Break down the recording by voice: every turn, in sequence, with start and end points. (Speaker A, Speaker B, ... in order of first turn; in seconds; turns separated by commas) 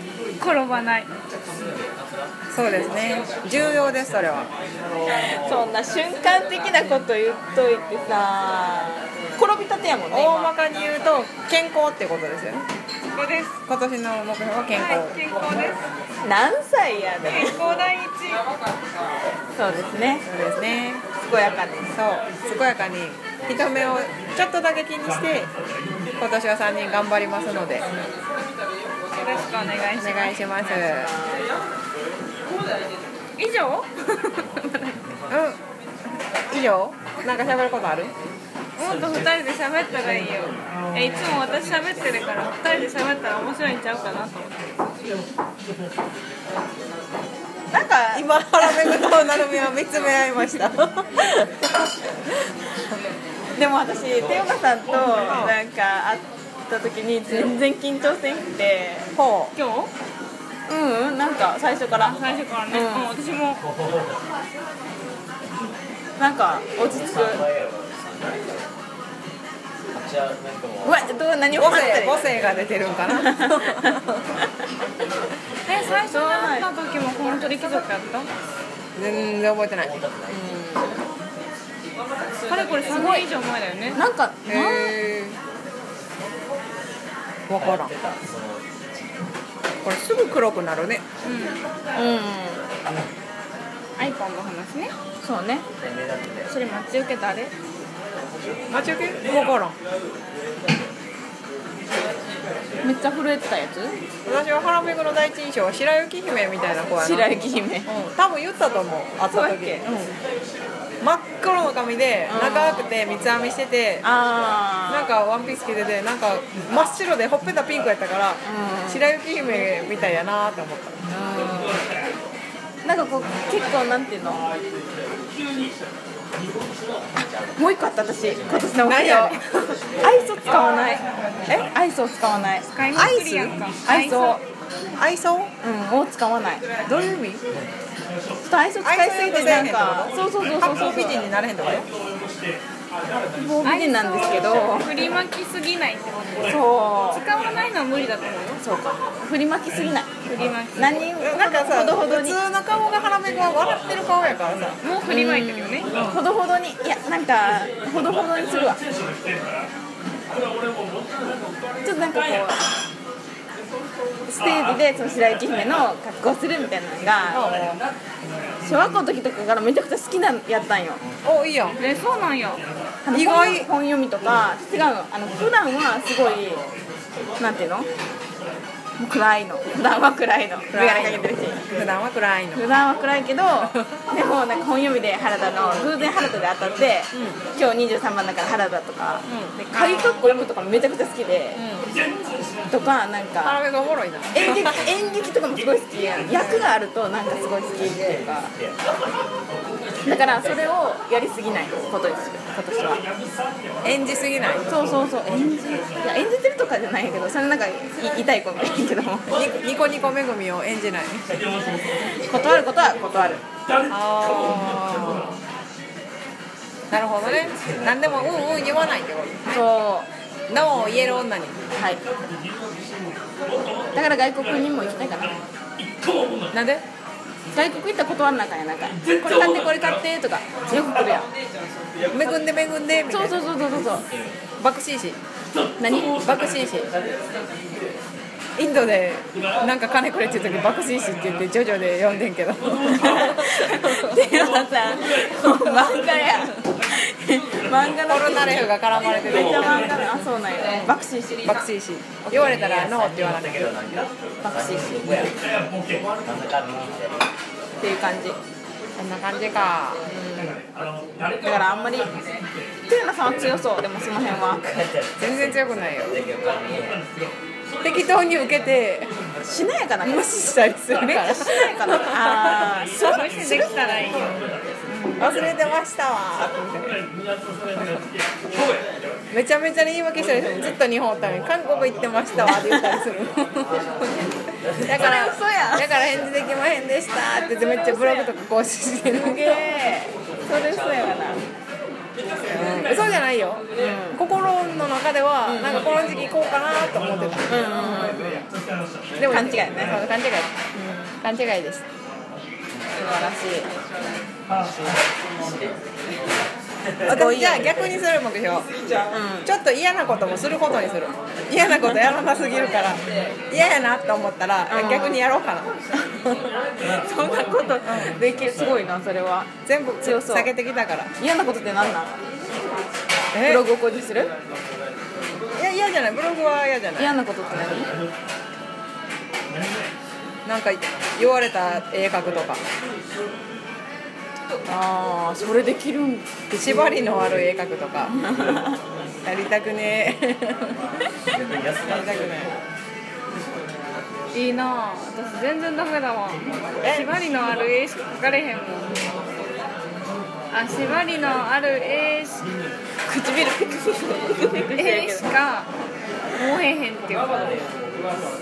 Speaker A: 0.4-1.1, Speaker B: 2.5-4.5, Speaker C: 5.0-10.5, Speaker B: 10.1-12.7, Speaker A: 13.1-13.6, Speaker B: 13.7-15.2, Speaker A: 14.7-15.8, Speaker C: 16.2-17.6, Speaker A: 17.3-18.4, Speaker C: 19.6-20.2, Speaker B: 20.2-21.1, Speaker C: 21.2-21.9, Speaker B: 21.9-25.5, Speaker B: 26.2-27.9, Speaker A: 29.1-30.7, Speaker B: 30.0-31.1, Speaker C: 30.9-31.5, Speaker A: 33.4-35.0, Speaker B: 35.3-35.6, Speaker B: 36.5-38.1, Speaker A: 38.8-44.6, Speaker C: 47.7-49.4, Speaker B: 48.1-51.7, Speaker C: 53.5-59.1, Speaker B: 55.0-55.5, Speaker B: 59.2-59.5, Speaker A: 59.5-59.9, Speaker C: 60.7-62.2, Speaker A: 62.0-63.6, Speaker C: 62.7-63.1, Speaker C: 66.2-67.5, Speaker C: 70.8-72.2, Speaker B: 71.5-73.9, Speaker C: 73.1-74.0, Speaker A: 75.7-78.3, Speaker C: 76.1-76.7, Speaker B: 79.0-80.0, Speaker C: 80.3-81.0, Speaker A: 82.5-84.0, Speaker C: 82.9-83.3, Speaker C: 83.9-84.9, Speaker B: 84.5-85.4, Speaker B: 87.5-88.0, Speaker B: 89.8-91.0, Speaker A: 91.2-91.6, Speaker C: 92.0-92.6, Speaker A: 94.0-94.9, Speaker C: 95.2-95.7, Speaker A: 96.5-97.5, Speaker B: 98.7-99.8, Speaker C: 102.8-104.0, Speaker B: 104.3-109.9, Speaker C: 107.0-107.9, Speaker C: 109.3-110.1, Speaker B: 111.0-114.0, Speaker C: 112.3-112.9, Speaker C: 114.0-115.1, Speaker B: 114.9-121.0, Speaker C: 118.4-119.1, Speaker C: 121.1-121.8, Speaker C: 122.8-124.5, Speaker C: 127.6-129.4, Speaker B: 128.8-129.8, Speaker C: 130.0-132.7, Speaker A: 132.7-134.4, Speaker B: 132.9-133.6, Speaker C: 133.8-134.4, Speaker B: 135.0-135.5, Speaker C: 135.6-136.6, Speaker B: 136.9-137.5, Speaker C: 138.5-141.2, Speaker B: 138.8-141.9, Speaker C: 143.3-144.9, Speaker A: 143.6-148.6, Speaker C: 146.5-147.2, Speaker C: 148.6-150.1, Speaker A: 150.2-151.0, Speaker C: 150.8-152.4, Speaker B: 151.2-154.8, Speaker A: 154.8-156.0, Speaker C: 155.1-158.8, Speaker C: 161.8-162.7, Speaker C: 164.3-167.6, Speaker B: 167.3-167.8, Speaker C: 168.6-171.0, Speaker B: 171.2-171.8, Speaker A: 171.8-172.7, Speaker C: 173.1-176.6, Speaker B: 173.1-173.7, Speaker C: 177.4-177.9, Speaker C: 179.0-181.6, Speaker B: 180.7-182.6, Speaker C: 182.6-191.6, Speaker B: 187.1-187.4, Speaker B: 189.3-190.1, Speaker B: 191.6-191.9, Speaker C: 192.7-193.6, Speaker B: 193.4-194.8, Speaker C: 194.3-198.5, Speaker B: 196.4-196.7, Speaker C: 200.1-203.0, Speaker B: 203.8-204.7, Speaker C: 204.7-209.3, Speaker B: 209.3-211.4, Speaker C: 211.9-213.4, Speaker B: 213.9-215.4, Speaker B: 216.9-219.6, Speaker C: 219.5-220.1, Speaker B: 220.5-221.6, Speaker C: 221.8-222.0, Speaker C: 223.9-225.4, Speaker B: 226.5-226.8, Speaker C: 227.5-231.3, Speaker B: 232.1-233.4, Speaker C: 233.1-234.1, Speaker B: 234.6-235.2, Speaker C: 235.8-236.3, Speaker B: 236.2-236.9, Speaker B: 238.6-244.3, Speaker C: 242.9-251.7, Speaker B: 248.1-250.2, Speaker B: 251.4-253.7, Speaker C: 252.3-252.5, Speaker C: 254.4-255.4, Speaker C: 257.8-258.4, Speaker B: 259.0-260.0, Speaker C: 260.1-260.6, Speaker C: 261.4-262.2, Speaker C: 262.9-264.8, Speaker B: 265.2-266.2, Speaker B: 267.8-269.1, Speaker C: 269.4-274.3, Speaker B: 270.0-272.4, Speaker A: 271.5-272.0, Speaker A: 272.9-274.3, Speaker A: 274.9-275.2, Speaker B: 275.2-277.0, Speaker B: 277.7-278.0, Speaker B: 279.3-284.0, Speaker C: 282.7-283.0, Speaker B: 284.8-289.8, Speaker C: 284.9-286.1, Speaker C: 287.5-288.3, Speaker C: 289.1-291.4, Speaker B: 292.5-298.1, Speaker C: 293.8-294.2, Speaker C: 295.4-295.9, Speaker C: 297.5-298.5, Speaker B: 299.2-300.5, Speaker C: 299.3-300.0, Speaker C: 300.8-301.2, Speaker B: 301.2-301.8, Speaker C: 302.9-303.7, Speaker B: 307.0-308.7, Speaker C: 307.1-307.7, Speaker C: 309.1-309.5, Speaker B: 309.4-315.7, Speaker C: 314.7-315.2, Speaker C: 316.8-319.5, Speaker B: 317.8-318.1, Speaker B: 319.6-321.1, Speaker C: 320.0-320.5, Speaker C: 321.2-322.2, Speaker B: 323.3-323.6, Speaker C: 323.4-324.3, Speaker B: 325.6-327.1, Speaker C: 327.0-328.0, Speaker B: 330.4-332.6, Speaker C: 334.7-337.0, Speaker B: 336.6-338.2, Speaker C: 338.3-338.8, Speaker B: 339.2-342.6, Speaker A: 344.3-349.0, Speaker B: 346.8-347.2, Speaker A: 350.5-352.5, Speaker C: 353.1-355.3, Speaker A: 354.8-355.7, Speaker A: 356.3-357.6